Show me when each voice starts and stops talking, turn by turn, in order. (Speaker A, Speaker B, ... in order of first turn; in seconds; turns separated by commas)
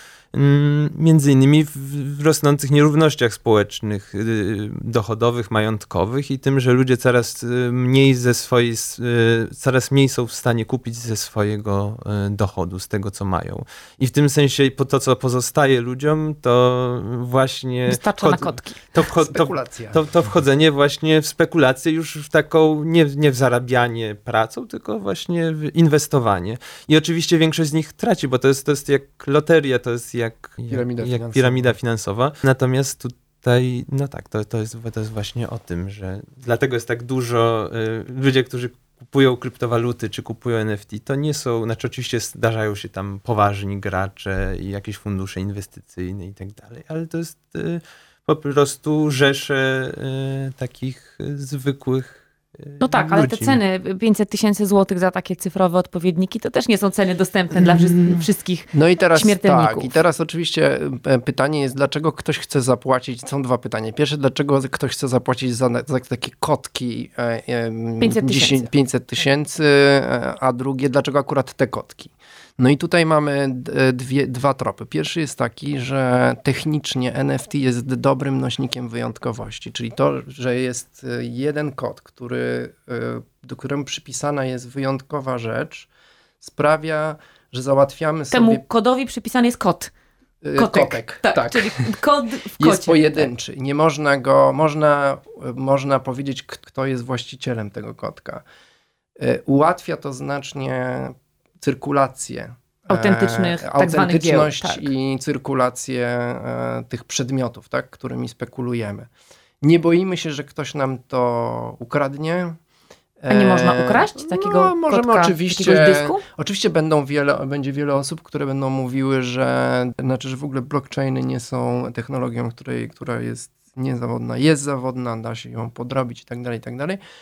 Speaker A: 0.3-53.6, Speaker B: 17.9-18.8, Speaker C: 19.2-20.0, Speaker C: 30.7-31.8, Speaker B: 52.8-59.9, Speaker C: 57.6-58.2, Speaker C: 58.7-85.9, Speaker B: 68.0-68.7, Speaker C: 86.4-88.6, Speaker B: 88.3-89.9, Speaker C: 90.4-91.7, Speaker B: 90.5-93.3, Speaker C: 92.6-98.4, Speaker C: 99.2-109.1, Speaker B: 102.9-104.9, Speaker C: 109.6-112.6, Speaker C: 113.2-127.0, Speaker B: 113.3-116.2